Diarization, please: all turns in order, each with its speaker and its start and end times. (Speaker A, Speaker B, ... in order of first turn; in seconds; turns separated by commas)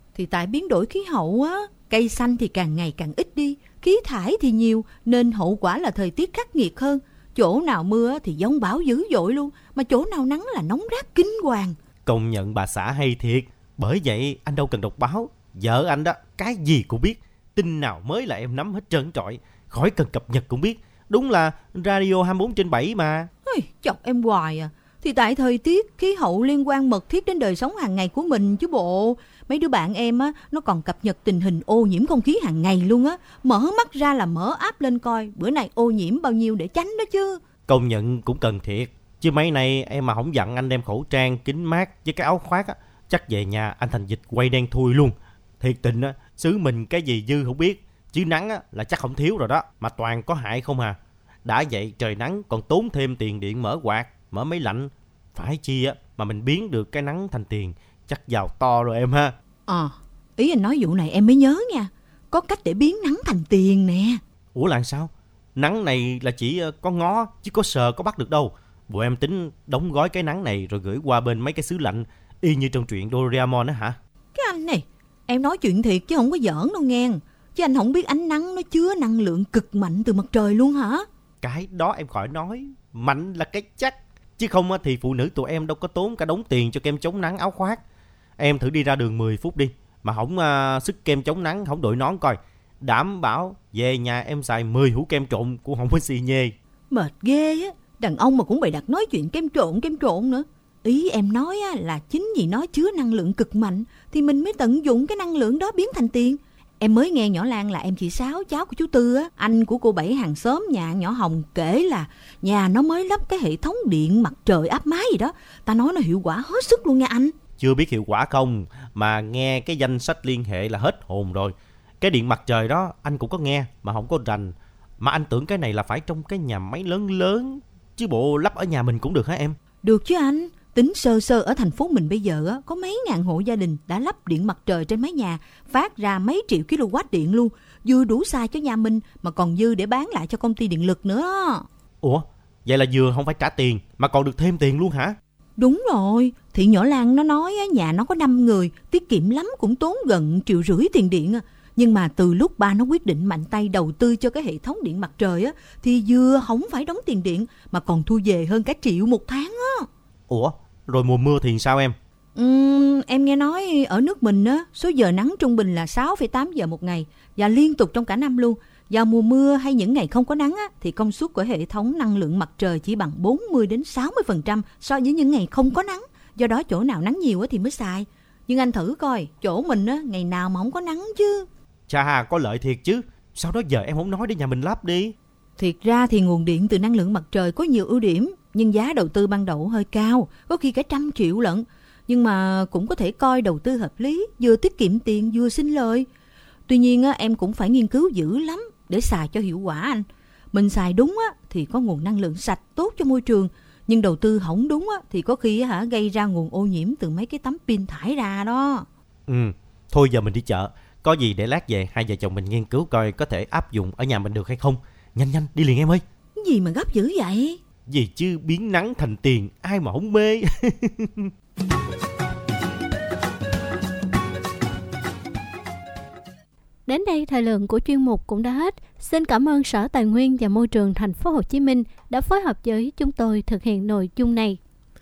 Speaker A: 0.1-11.8, Speaker B: 12.1-23.3, Speaker A: 23.4-37.4, Speaker B: 37.7-59.3, Speaker A: 59.7-64.2, Speaker B: 64.5-74.0, Speaker A: 74.3-81.1, Speaker B: 81.4-87.8, Speaker B: 88.4-96.5, Speaker A: 96.9-117.3, Speaker B: 117.6-129.6, Speaker A: 129.8-141.7, Speaker B: 142.0-145.2, Speaker A: 145.6-159.9, Speaker B: 160.3-161.9, Speaker A: 162.3-181.5, Speaker B: 181.9-185.1, Speaker A: 185.6-196.1, Speaker A: 196.7-208.9, Speaker B: 209.3-216.0, Speaker A: 216.4-217.6, Speaker B: 217.9-221.3, Speaker C: 226.9-234.6